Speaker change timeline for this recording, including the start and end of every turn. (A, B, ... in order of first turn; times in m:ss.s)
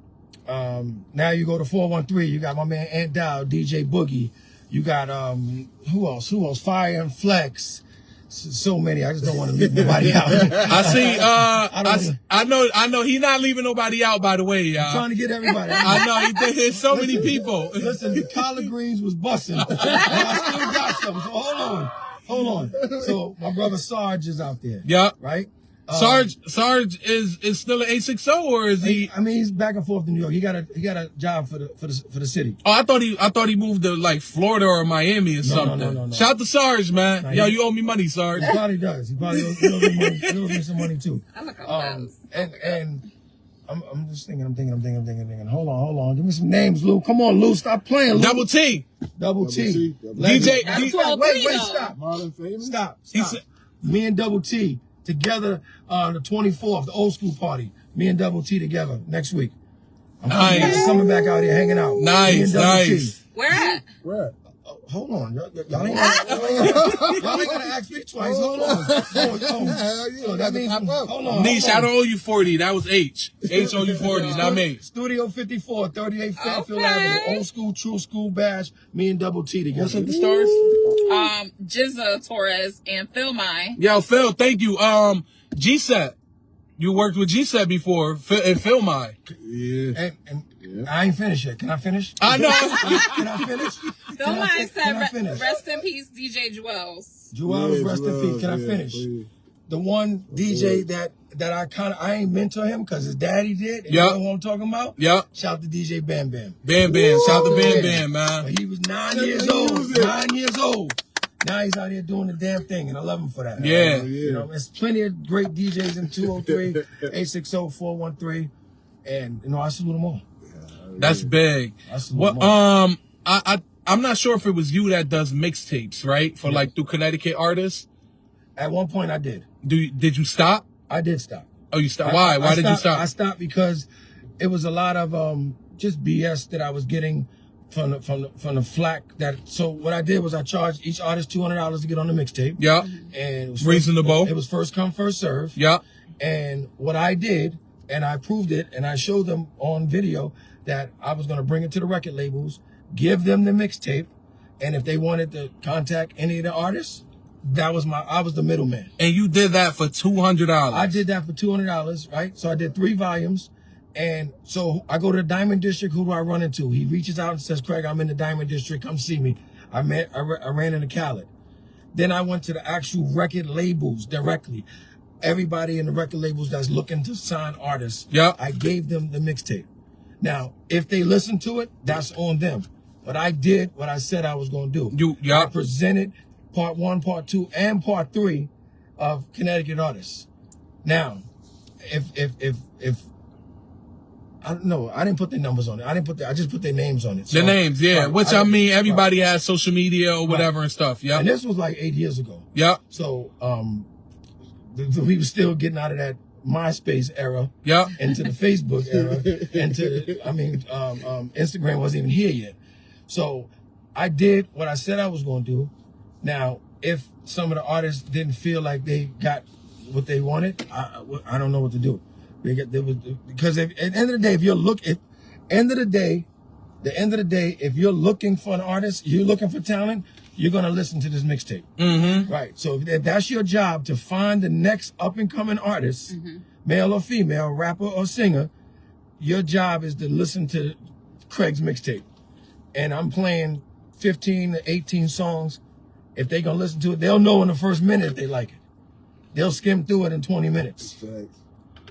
0:00.5-0:12.2 A
0:09.8-0:10.7 B
0:10.6-0:15.0 C
0:14.8-0:16.0 A
0:15.7-0:16.5 D
0:15.8-0:18.2 C
0:16.9-0:26.3 A
0:17.1-0:18.2 B
0:19.7-0:20.2 C
0:19.9-0:20.9 B
0:22.4-0:23.1 B
0:24.8-0:25.1 C
0:25.9-0:29.1 C
0:28.8-0:32.6 A
0:32.6-0:38.6 C
0:35.4-0:36.3 A
0:37.2-0:37.6 A
0:38.4-0:43.0 A
0:39.3-0:40.8 C
0:41.3-0:42.8 D
0:43.7-0:48.5 A
0:48.1-0:48.9 C
0:49.2-0:52.0 A
0:49.4-0:50.7 B
0:50.2-0:51.0 C
0:50.6-0:51.9 D
0:51.4-0:52.8 B
0:52.6-0:59.5 A
0:53.1-0:53.4 C
1:00.2-1:03.2 A
1:00.3-1:00.9 C
1:00.6-1:01.0 B
1:02.0-1:03.2 C
1:03.3-1:03.8 D
1:03.5-1:04.3 B
1:04.6-1:11.9 A
1:05.8-1:11.3 B
1:05.9-1:06.6 D
1:06.2-1:07.4 C
1:11.3-1:14.8 C
1:13.5-1:14.3 B
1:13.6-1:20.1 A
1:14.1-1:14.6 D
1:16.4-1:17.4 D
1:19.7-1:20.7 C
1:20.0-1:21.3 B
1:21.0-1:23.8 D
1:23.8-1:26.2 C
1:26.8-1:29.2 C
1:29.4-1:30.0 B
1:29.9-1:35.5 A
1:30.6-1:30.9 B
1:32.2-1:33.6 C
1:32.4-1:33.2 D
1:34.1-1:37.3 D
1:37.3-1:39.1 A
1:37.4-1:39.3 B
1:39.7-1:46.6 A
1:40.3-1:40.8 B
1:43.9-1:44.2 C
1:45.0-1:45.3 C
1:46.6-1:48.5 C
1:46.8-1:47.8 B
1:47.2-1:58.5 A
1:49.1-1:50.2 B
1:53.6-1:54.1 C
1:53.8-1:54.5 B
1:56.2-1:56.9 B
1:59.0-2:00.2 A
2:00.4-2:01.3 B
2:01.0-2:07.9 C
2:01.8-2:02.5 A
2:08.6-2:09.4 A
2:09.6-2:10.7 C
2:10.9-2:11.5 A
2:11.7-2:13.0 C
2:12.0-2:13.9 A
2:14.4-2:25.6 A
2:22.6-2:22.9 C
2:22.8-2:23.1 D
2:23.6-2:24.3 C
2:25.6-2:25.8 C
2:26.2-2:38.9 A
2:39.0-2:41.0 C
2:40.7-2:51.3 A
2:51.9-2:54.7 A
2:55.2-2:59.7 A
2:58.1-2:58.4 C
3:00.2-3:10.3 A
3:04.9-3:05.5 C
3:10.8-3:11.2 A
3:11.9-3:13.0 A
3:14.4-3:19.0 A
3:17.3-3:21.2 C
3:21.1-3:23.9 A
3:22.5-3:22.8 C
3:24.7-3:32.6 A
3:27.6-3:28.0 C
3:29.2-3:29.6 B
3:33.1-3:35.7 A
3:36.2-3:46.3 A
3:46.8-3:51.6 A
3:51.8-3:52.3 C
3:52.0-3:52.3 D
3:52.3-3:58.5 A
3:56.1-3:56.4 D
3:59.2-4:00.8 A
4:01.3-4:02.0 A
4:02.7-4:05.6 A
4:06.2-4:08.6 A
4:09.3-4:11.0 A
4:10.8-4:11.4 B